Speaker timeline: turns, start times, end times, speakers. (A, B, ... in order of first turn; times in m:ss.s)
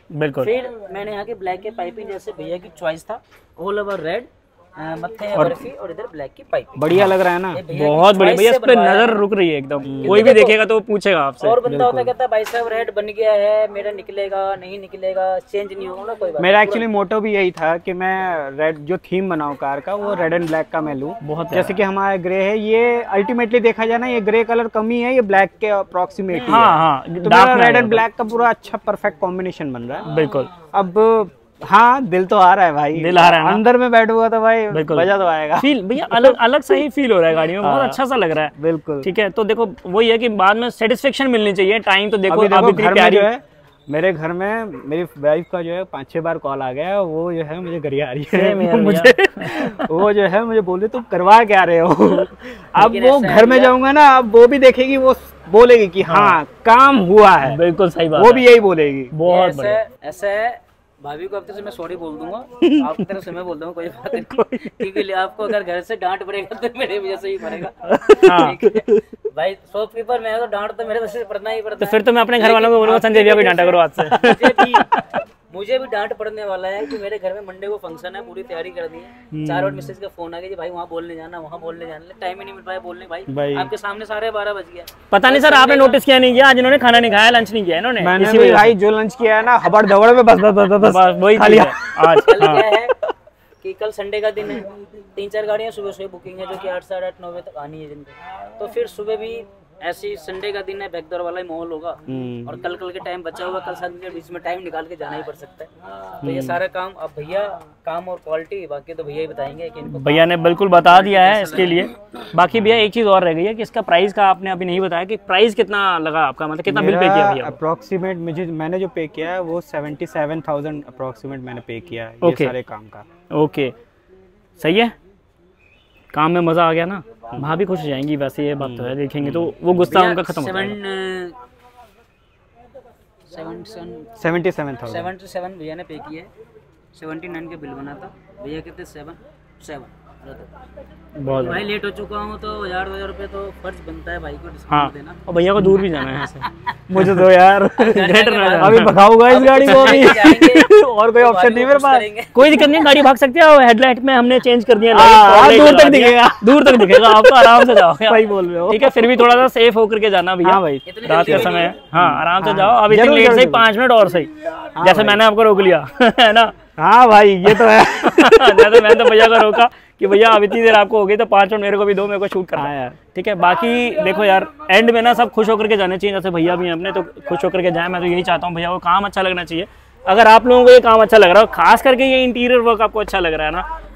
0:00.1-0:00.5 A
0:00.4-0:06.8 B
0:06.8-0:07.6 C
0:07.5-0:09.2 B
0:07.7-0:11.6 A
0:09.8-0:10.3 C
0:10.0-0:10.6 B
0:11.4-0:16.8 B
0:11.6-0:12.1 C
0:16.4-0:30.1 C
0:21.2-0:21.7 A
0:26.3-0:28.0 A
0:30.0-0:30.5 A
0:30.6-0:36.4 C
0:32.9-0:33.6 A
0:34.7-0:43.3 A
0:37.6-0:38.0 C
0:38.5-0:39.1 C
0:42.3-0:57.6 C
0:48.3-0:49.9 A
0:52.8-0:53.7 B
0:56.0-0:56.4 A
0:57.4-0:58.4 A
0:58.2-0:59.1 C
0:59.1-0:59.8 A
0:59.3-1:14.9 B
1:08.2-1:08.6 A
1:11.8-1:15.2 A
1:15.5-1:26.0 B
1:19.3-1:19.9 C
1:23.3-1:23.7 C
1:25.1-1:28.8 A
1:28.0-1:32.2 C
1:30.8-1:32.6 A
1:32.3-1:32.9 B
1:33.6-1:51.9 B
1:42.1-1:42.6 C
1:46.2-1:46.6 A
1:49.9-1:57.6 A
1:56.7-2:03.0 C
2:02.2-2:02.5 A
2:03.3-2:03.7 A
2:04.6-2:04.9 A
2:06.1-2:10.8 A
2:08.6-2:09.6 C
2:09.8-2:11.4 B
2:13.3-2:14.1 B
2:14.2-2:15.1 C
2:14.8-2:16.3 B
2:16.9-2:20.5 B
2:21.2-2:21.6 A
2:21.3-2:25.2 B
2:24.7-2:30.6 A
2:26.9-2:28.0 C
2:27.8-2:32.5 B
2:28.6-2:32.0 C
2:32.3-2:46.5 A
2:34.9-2:39.2 C
2:40.4-2:43.7 C
2:40.8-2:41.8 B
2:44.8-2:45.2 C
2:46.8-2:49.6 C
2:47.5-3:03.6 A
2:52.6-2:53.0 C